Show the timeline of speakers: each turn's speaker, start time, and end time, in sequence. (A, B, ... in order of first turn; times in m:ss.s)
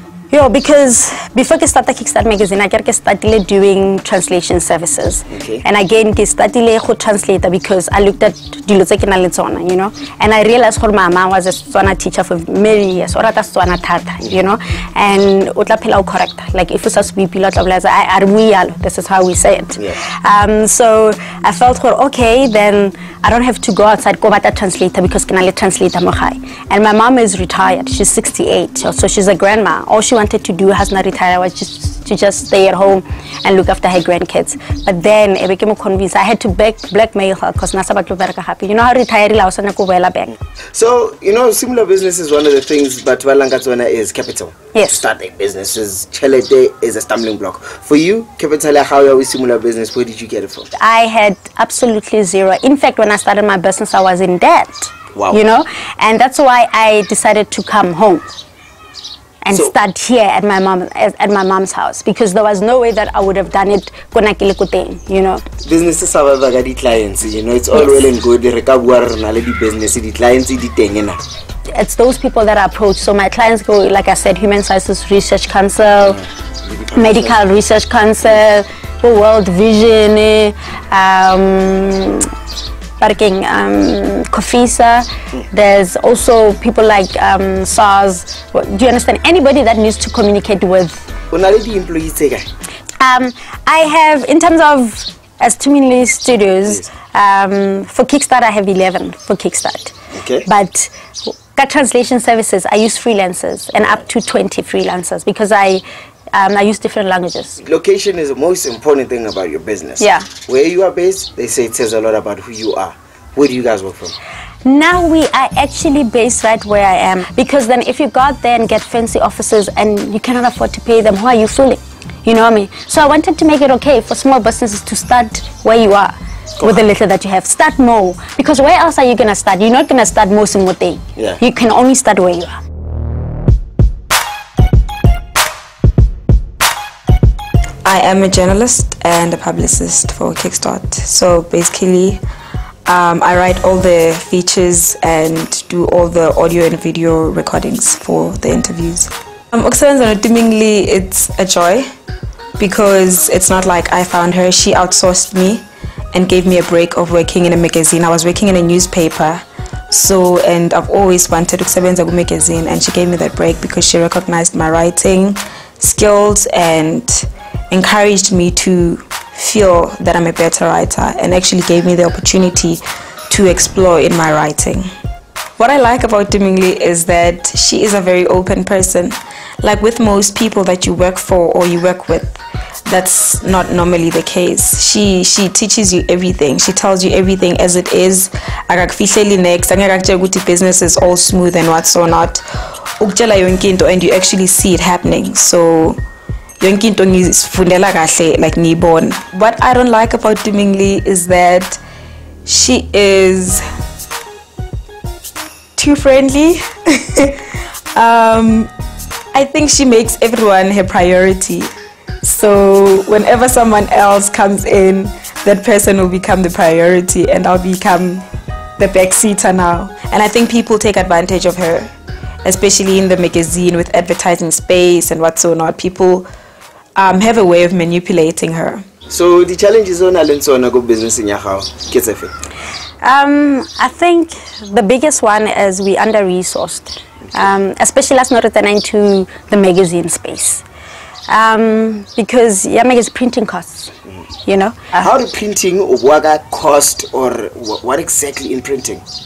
0:00.3-0:40.3 A
0:05.3-0:05.6 B
0:40.7-0:50.7 B
0:44.7-0:45.0 A
0:50.8-0:58.3 A
0:55.1-0:55.4 B
0:59.4-1:05.4 A
1:05.6-1:11.2 B
1:07.7-1:08.1 A
1:11.7-1:16.2 A
1:16.7-1:17.4 B
1:16.9-1:22.3 A
1:23.0-1:31.1 A
1:31.3-1:32.5 B
1:33.0-1:39.9 A
1:40.1-1:40.5 B
1:40.5-1:47.6 A
1:47.6-1:54.2 B
1:50.0-1:50.3 A
1:54.6-2:12.5 A
2:17.8-2:22.2 C
2:22.9-2:31.9 C
2:32.6-2:54.9 C
2:55.6-3:12.5 C
3:13.0-3:16.0 C
3:16.6-3:21.8 C
3:22.5-3:23.6 C
3:25.8-3:27.4 C
3:27.9-3:28.7 C
3:29.3-3:31.7 C
3:32.2-3:38.2 C
3:38.8-3:41.9 C
3:42.4-3:46.3 C
3:47.0-3:48.8 C
3:49.1-3:52.3 B
3:53.0-4:00.6 A
4:01.3-4:03.9 A
4:04.5-4:05.1 A
4:05.0-4:09.0 B